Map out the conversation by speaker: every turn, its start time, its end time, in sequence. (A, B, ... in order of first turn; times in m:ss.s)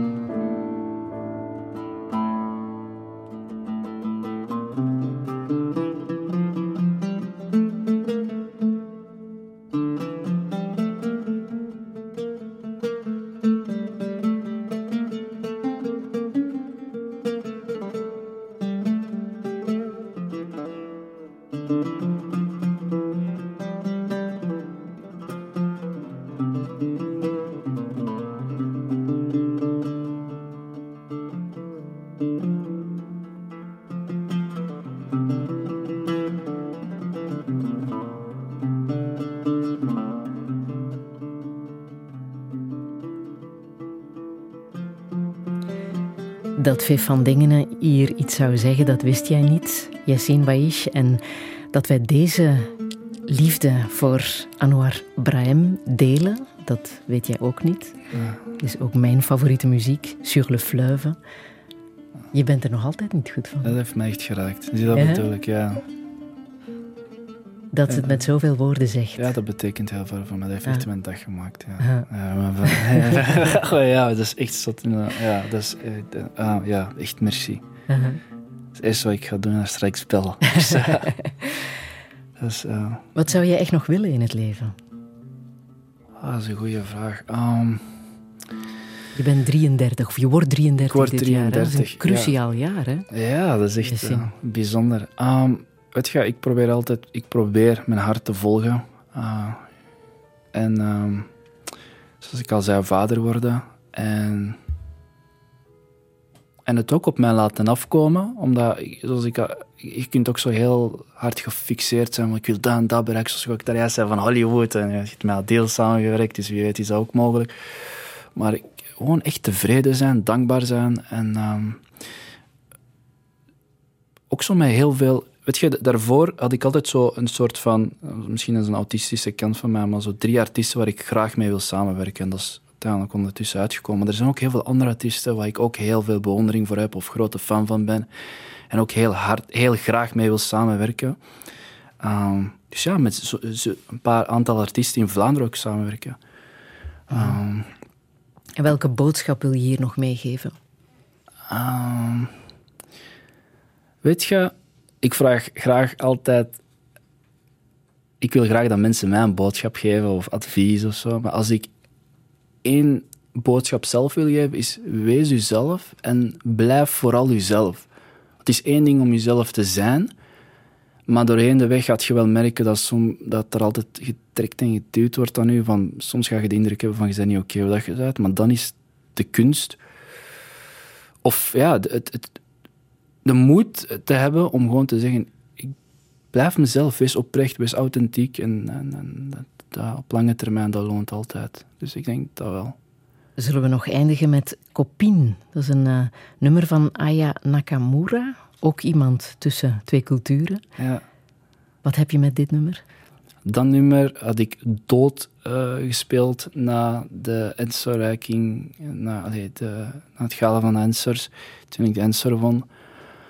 0:46.6-0:51.2 A
0:51.7-0:52.7 A
0:53.3-0:58.0 A
0:58.1-0:58.4 B
0:58.6-1:01.2 A
1:02.3-1:03.7 A
1:03.6-1:05.8 B
1:04.9-1:05.2 A
1:07.7-1:09.3 A
1:07.9-1:08.2 B
1:09.2-1:17.6 B
1:12.7-1:13.2 A
1:17.9-1:18.2 A
1:18.7-1:21.1 B
1:20.6-1:21.5 A
1:22.4-1:23.1 B
1:23.2-1:24.7 A
1:26.2-1:28.0 B
1:29.1-1:33.0 A
1:30.8-1:32.4 B
1:33.1-1:39.7 B
1:33.8-1:34.3 A
1:40.5-1:41.3 B
1:42.2-1:44.6 B
1:46.6-1:57.5 B
1:58.3-2:01.8 B
2:04.3-2:18.1 B
2:18.7-2:21.2 B
2:22.0-2:26.2 B
2:27.1-2:27.7 B
2:27.1-2:27.4 A
2:28.6-2:30.6 A
2:31.5-2:32.3 B
2:34.0-2:36.6 B
2:38.2-2:41.7 B
2:42.6-2:47.8 B
2:48.4-2:50.1 B
2:51.1-2:59.8 B
3:01.2-3:02.4 B
3:03.2-3:05.7 B
3:06.3-3:12.8 B
3:13.4-3:20.6 A
3:20.8-3:21.0 B
3:21.8-3:22.8 A
3:23.4-3:32.7 B